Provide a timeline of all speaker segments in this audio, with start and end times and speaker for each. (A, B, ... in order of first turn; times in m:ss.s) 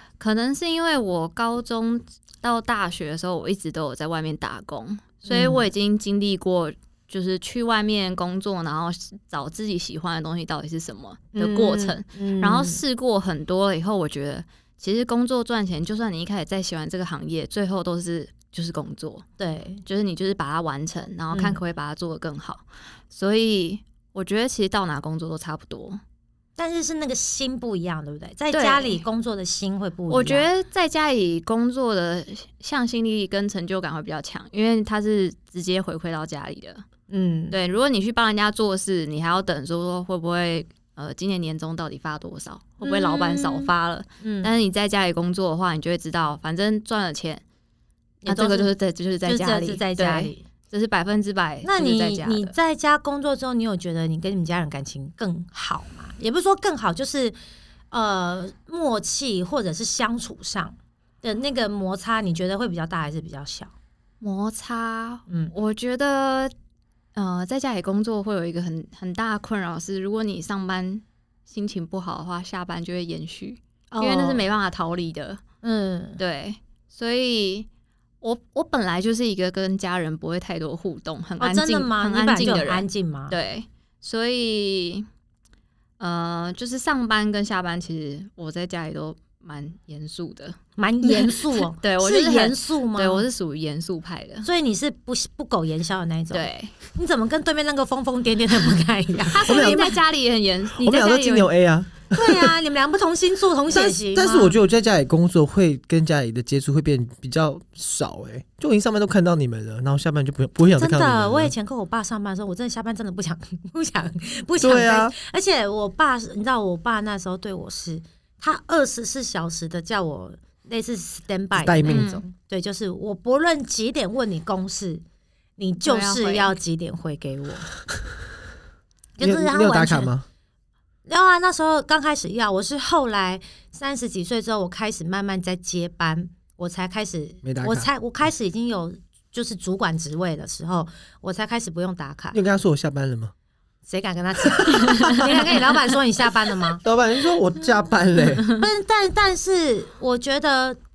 0:00.2-0:19.2 A
0:05.3-0:05.7 B
0:11.3-0:12.8 B
0:19.4-0:19.8 B
0:19.8-0:26.0 A
0:21.3-0:21.6 B
0:26.6-0:30.4 B
0:28.5-0:29.0 A
0:30.1-0:36.8 A
0:37.1-0:37.6 B
0:37.5-0:47.4 A
0:42.8-0:43.7 B
0:44.2-0:44.5 B
0:48.2-0:48.7 B
0:48.2-0:52.5 A
0:49.2-0:50.4 B
0:51.6-0:57.4 B
0:57.9-1:03.7 B
1:04.2-1:06.5 A
1:05.3-1:05.5 B
1:07.2-1:15.4 A
1:13.9-1:14.4 B
1:15.6-1:16.2 B
1:16.2-1:17.7 A
1:18.2-1:25.1 A
1:21.4-1:23.4 B
1:26.0-1:34.5 A
1:30.8-1:33.2 B
1:34.4-1:40.0 B
1:36.3-1:36.7 A
1:39.3-1:41.5 A
1:39.4-1:39.8 C
1:40.7-1:42.6 C
1:42.1-1:44.6 B
1:43.7-1:51.5 C
1:50.8-2:05.0 B
1:54.6-1:55.1 C
2:01.6-2:02.1 C
2:01.9-2:02.2 A
2:05.6-2:07.7 B
2:05.8-2:06.5 A
2:09.2-2:10.1 B
2:09.2-2:10.2 C
2:11.0-2:22.4 B
2:17.4-2:17.9 C
2:22.3-2:23.3 C
2:23.9-2:26.8 B
2:24.6-2:25.6 C
2:26.8-2:28.5 C
2:28.5-2:30.8 B